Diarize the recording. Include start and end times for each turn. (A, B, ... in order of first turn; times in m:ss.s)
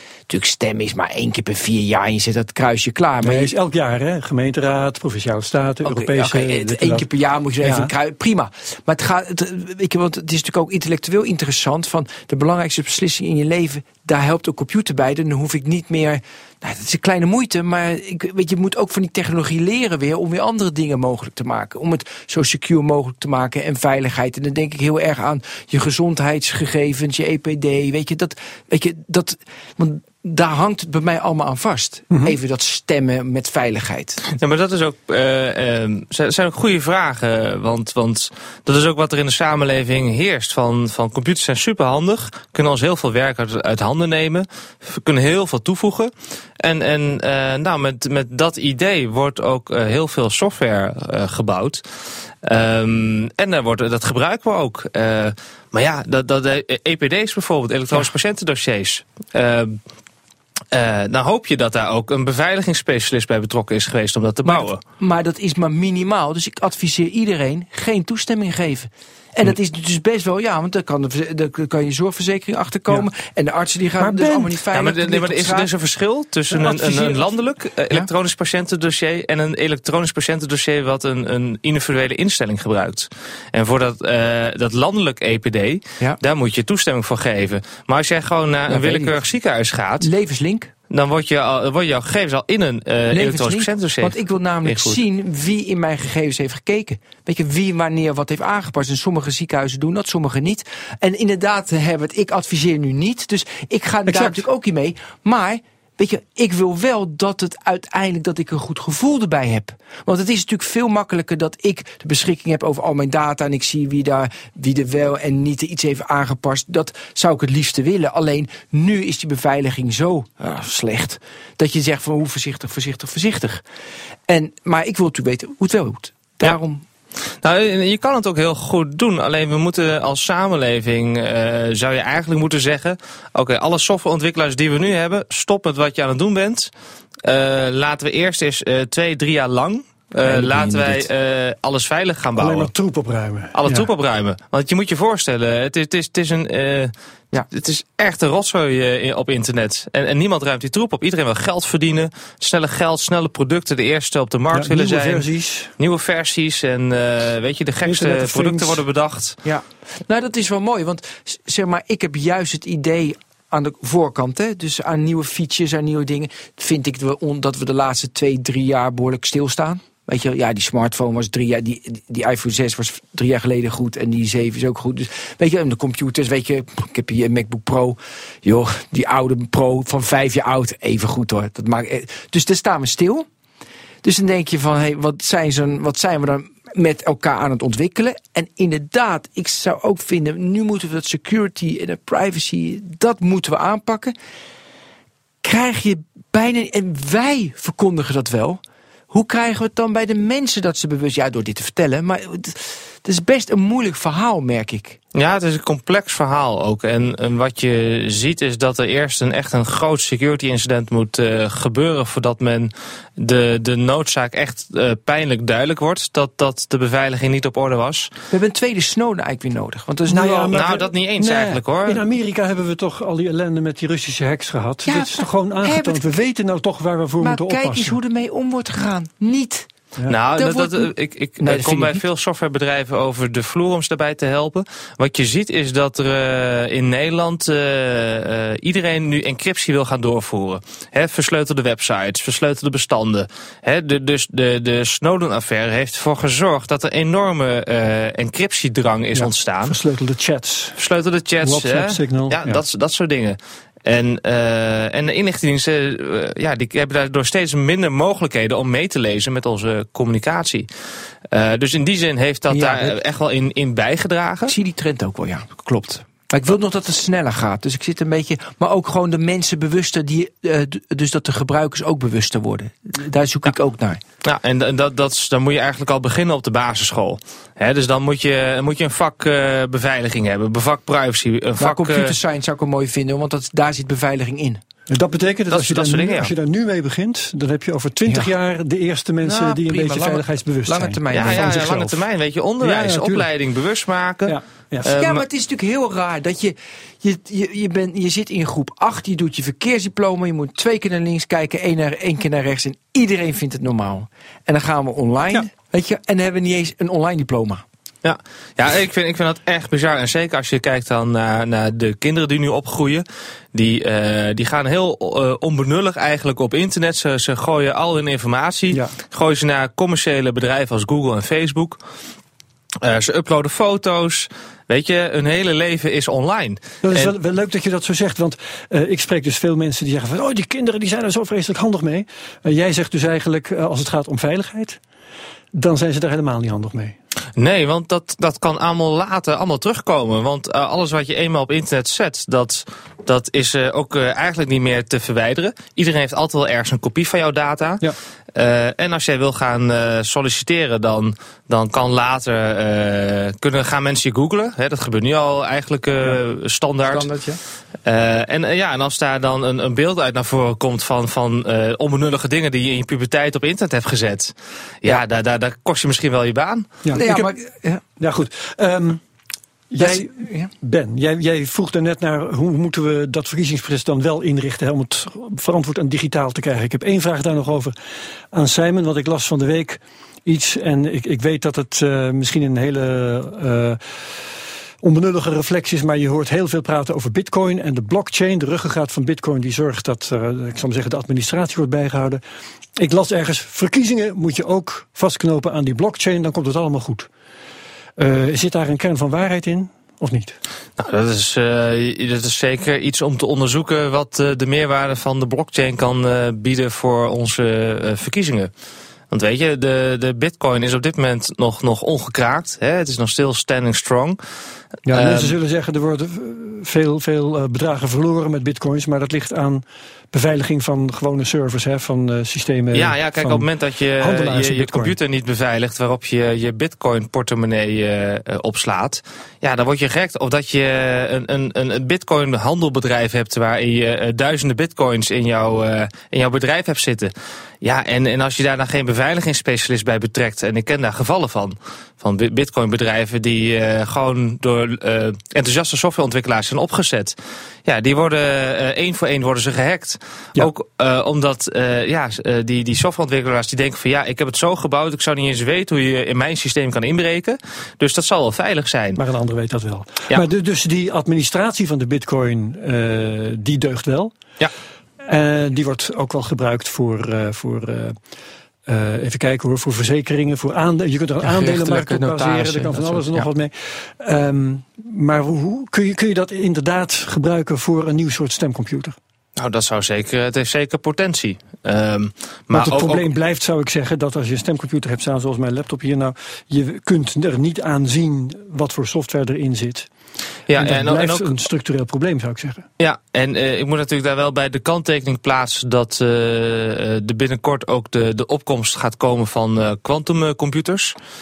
0:00.3-0:03.5 A
0:03.2-0:07.1 B
0:05.8-0:34.2 A
0:07.6-0:07.9 B
0:34.3-0:51.8 C
0:52.4-0:59.8 C
1:00.7-1:04.8 C
1:04.4-1:15.7 A
1:14.0-1:14.5 B
1:14.7-1:30.1 C
1:16.6-1:17.2 A
1:28.7-1:29.2 A
1:30.0-1:30.7 A
1:30.9-1:35.0 C
1:33.1-2:03.6 A
1:44.1-1:44.4 B
2:04.3-2:06.8 A
2:07.4-2:16.7 C
2:17.2-2:22.7 C
2:20.2-2:21.1 A
2:22.4-2:23.9 B
2:23.5-2:26.9 C
2:27.5-2:35.3 C
2:34.5-2:35.7 B
2:35.8-2:39.4 C
2:37.8-2:38.8 B
2:39.4-3:03.3 A
3:04.0-3:14.2 A
3:15.4-3:18.6 A
3:19.1-3:25.0 A
3:25.2-3:38.1 C
3:38.3-3:40.6 A
3:40.1-3:48.0 B
3:40.5-3:42.0 C
3:44.9-3:46.1 A
3:47.2-3:49.7 A
3:50.1-4:09.8 C
3:50.3-3:52.0 A
4:09.1-4:10.8 B
4:10.8-4:20.7 C
4:11.4-4:12.6 B
4:21.3-4:24.6 C
4:22.5-4:23.0 A
4:24.5-4:34.0 A
4:34.2-4:42.2 C
4:41.6-4:44.6 A
4:44.9-4:51.5 B
4:45.5-4:46.3 C
4:49.2-4:52.0 A
4:51.1-4:55.3 C
4:52.6-4:53.3 B
4:54.3-4:54.9 B
4:54.8-5:07.6 A
5:08.0-5:21.8 C
5:18.7-5:19.0 B
5:22.8-5:27.1 C
5:26.8-5:34.8 B
5:35.5-5:37.0 B
5:37.4-5:57.1 C
5:56.9-5:57.4 A
5:57.8-6:06.7 C
6:06.8-6:07.3 B
6:06.9-6:07.8 A
6:08.0-6:09.0 B
6:09.7-6:17.7 B
6:09.8-6:10.5 A
6:18.3-6:23.8 B
6:24.8-6:32.2 B
6:32.8-6:37.1 B
6:38.0-6:40.4 B
6:40.8-6:48.5 C
6:49.1-6:54.2 C
6:54.9-7:03.5 B
6:54.9-6:55.4 C
7:02.7-7:39.0 C
7:04.0-7:05.0 B
7:39.0-7:44.2 B
7:45.0-7:48.0 B
7:48.7-7:59.0 B
7:51.2-7:53.3 A
7:59.4-8:03.1 C
8:02.5-8:09.9 B
8:10.5-8:11.4 C
8:10.6-8:12.7 B
8:12.8-8:21.0 C